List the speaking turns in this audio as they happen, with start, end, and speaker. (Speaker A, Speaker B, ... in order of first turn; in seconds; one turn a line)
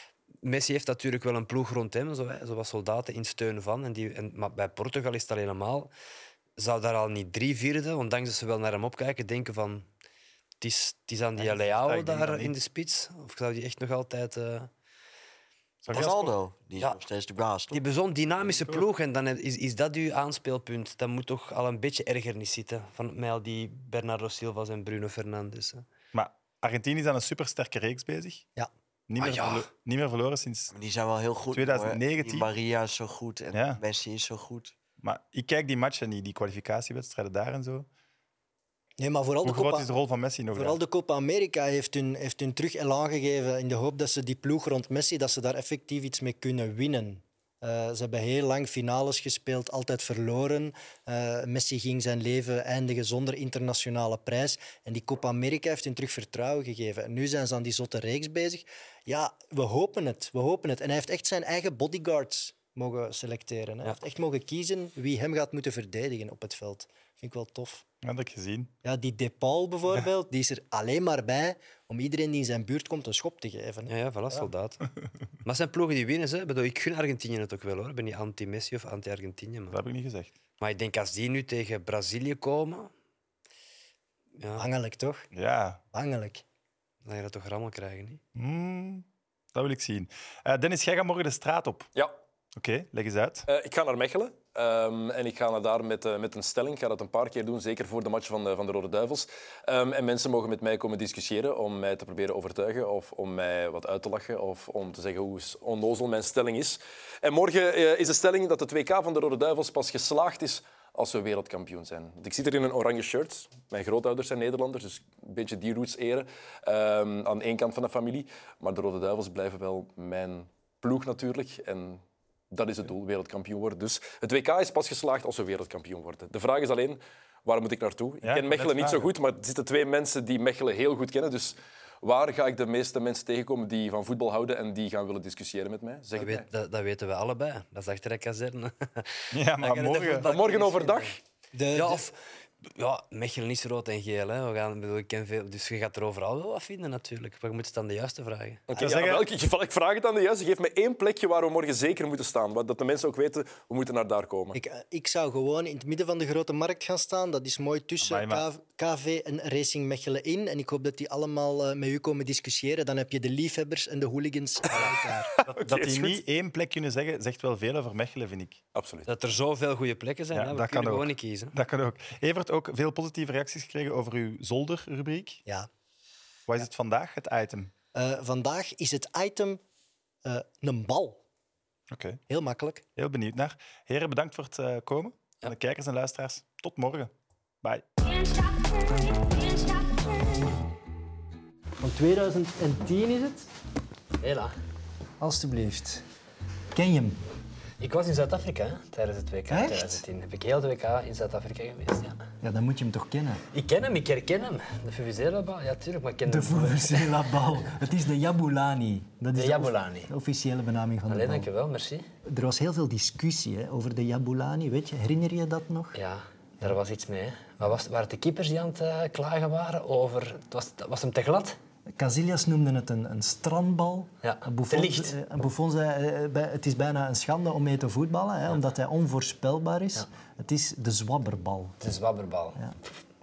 Speaker A: 0.4-5.9
Speaker A: 6.6-9.9
Speaker A: 10.6-14.7
Speaker B: 11.4-12.6
Speaker B: 15.8-16.3
Speaker C: 15.9-17.8
Speaker A: 17.7-25.8
Speaker B: 18.4-18.8
Speaker B: 26.1-28.4
Speaker B: 29.1-30.7
Speaker A: 29.2-29.7
Speaker C: 30.7-34.7
Speaker B: 31.5-32.5
Speaker B: 33.5-33.8
Speaker B: 35.0-37.9
Speaker D: 39.0-39.9
Speaker B: 39.4-40.8
Speaker D: 40.5-67.8
Speaker B: 68.0-68.7
Speaker D: 68.8-74.5
Speaker A: 73.9-74.8
Speaker A: 75.4-79.8
Speaker B: 79.7-80.3
Speaker A: 80.6-82.9
Speaker A: 84.4-84.6
Speaker D: 84.6-85.3
Speaker B: 85.3-85.8
Speaker D: 85.9-86.4
Speaker A: 87.0-88.2
Speaker B: 88.3-91.9
Speaker B: 92.5-93.5
Speaker E: 93.5-136.5
Speaker B: 128.2-129.1
Speaker A: 136.2-141.2
Speaker B: 139.3-140.3
Speaker E: 140.2-141.2
Speaker D: 141.5-142.2
Speaker A: 141.7-142.1
Speaker A: 142.6-148.6
Speaker E: 148.7-154.6
Speaker B: 148.7-149.2
Speaker D: 154.5-165.3
Speaker B: 158.0-158.4
Speaker E: 165.4-166.2
Speaker B: 165.5-168.6
Speaker E: 168.7-169.1
Speaker A: 169.1-171.5
Speaker B: 170.3-175.4
Speaker B: 176.5-177.7
Speaker D: 177.9-179.6
Speaker D: 180.2-181.2
Speaker B: 181.9-182.2
Speaker D: 182.3-182.8
Speaker B: 182.9-187.8
Speaker D: 191.8-193.5
Speaker A: 194.2-194.5
Speaker D: 195.2-196.0
Speaker D: 196.7-197.2
Speaker A: 197.8-202.2
Speaker D: 199.5-200.0
Speaker D: 202.4-203.4
Speaker A: 203.5-207.2
Speaker D: 206.2-211.5
Speaker A: 209.3-210.1
Speaker A: 211.1-212.1
Speaker D: 212.2-216.0
Speaker A: 215.9-221.6
Speaker D: 221.9-231.8
Speaker A: 224.2-225.2
Speaker A: 231.8-232.6